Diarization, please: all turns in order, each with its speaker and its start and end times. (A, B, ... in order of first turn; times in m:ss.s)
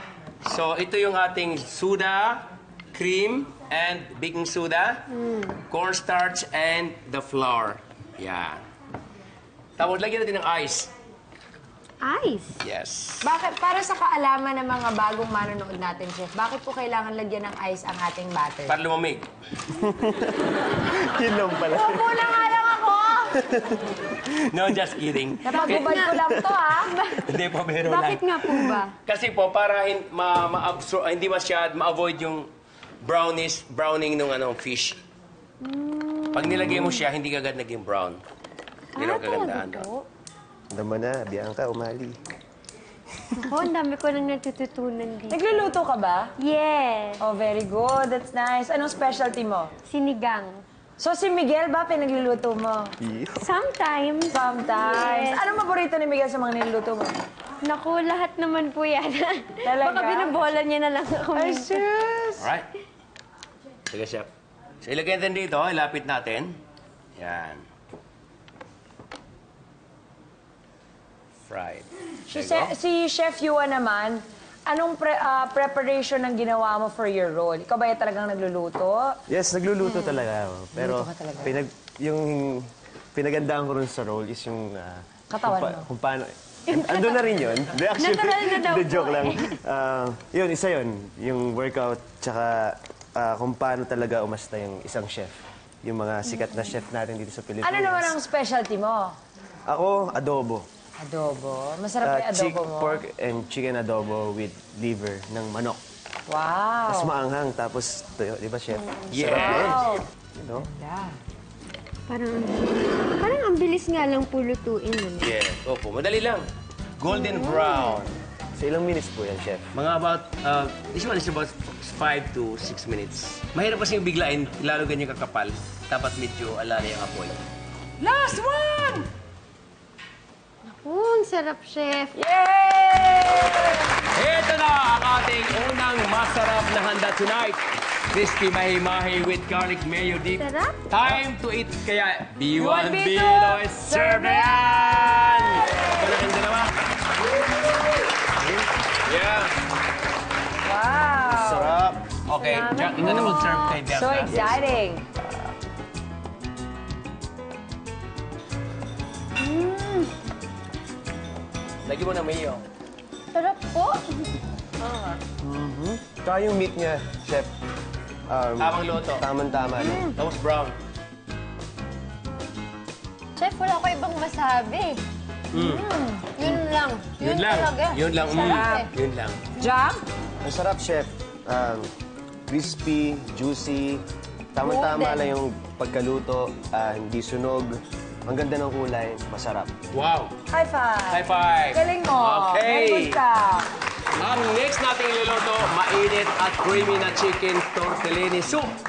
0:00.4-0:05.1 A
0:05.1-0:05.6 B
0:05.7-0:08.6 A
0:09.8-0:10.9 A
0:12.0-0:12.6 B
0:12.6-0:13.3 A
0:13.2-0:18.8 C
0:18.7-0:19.3 A
0:19.7-0:22.4 D
0:21.7-0:23.4 C
0:23.4-0:23.8 D
0:24.2-0:25.9 A
0:25.4-0:27.0 C
0:25.5-0:26.2 B
0:26.0-0:26.6 D
0:26.8-0:27.3 B
0:27.2-0:32.5 A
0:27.8-0:28.9 B
0:33.0-0:35.0 A
0:35.6-0:37.0 B
0:36.3-0:38.2 A
0:38.9-0:40.1 B
0:39.0-0:39.9 A
0:40.7-0:42.2 D
0:43.4-0:45.7 B
0:45.3-0:46.3 C
0:46.4-0:47.2 B
0:47.2-0:49.7 C
0:49.9-0:50.6 B
0:51.0-0:53.0 C
0:53.0-0:53.5 D
0:53.4-0:55.5 B
0:54.3-0:57.2 C
0:57.6-1:01.8 B
0:59.6-1:00.5 C
1:01.4-1:02.5 C
1:02.4-1:02.7 A
1:03.9-1:04.3 A
1:04.8-1:06.6 A
1:07.2-1:07.6 A
1:11.5-1:12.7 A
1:12.3-1:19.2 C
1:19.3-1:38.2 D
1:19.8-1:20.2 B
1:20.7-1:21.6 C
1:25.3-1:25.9 C
1:26.7-1:27.2 B
1:28.0-1:29.6 B
1:36.3-1:36.7 B
1:37.6-1:39.2 C
1:39.7-1:40.7 D
1:41.0-1:43.0 C
1:42.0-1:45.8 D
1:46.3-1:47.1 C
1:46.9-1:50.7 D
1:48.7-1:49.7 B
1:49.1-1:49.8 A
1:49.3-1:51.2 C
1:52.1-1:55.3 B
1:55.2-1:56.4 A
1:57.0-1:58.1 A
1:57.1-1:58.0 B
1:58.6-1:59.7 D
1:59.7-2:07.4 A
2:08.0-2:09.1 A
2:10.6-2:12.2 B
2:12.2-2:13.9 C
2:14.1-2:17.6 A
2:18.1-2:26.7 A
2:20.4-2:20.9 B
2:22.5-2:24.7 C
2:25.4-2:26.1 C
2:29.0-2:29.6 A
2:30.6-2:31.7 C
2:31.3-2:32.1 D
2:32.3-2:34.5 A
2:32.4-2:33.8 B
2:33.0-2:35.0 C
2:34.3-2:34.6 D
2:39.4-2:40.1 B
2:41.8-2:42.6 A
2:43.3-2:45.2 B
2:45.4-2:47.5 D
2:48.3-2:50.1 D
2:48.6-2:49.2 A
2:49.8-2:50.1 B
2:49.9-2:50.8 A
2:53.4-2:58.9 B
2:55.5-2:55.8 A
2:57.2-2:59.4 A
2:58.3-2:58.8 C
2:59.6-3:00.0 C
3:00.4-3:01.9 D
3:02.5-3:04.0 D
3:04.5-3:09.7 D
3:04.6-3:05.3 B
3:09.9-3:10.4 A
3:10.5-3:13.7 C
3:11.1-3:13.2 A
3:14.2-3:18.8 A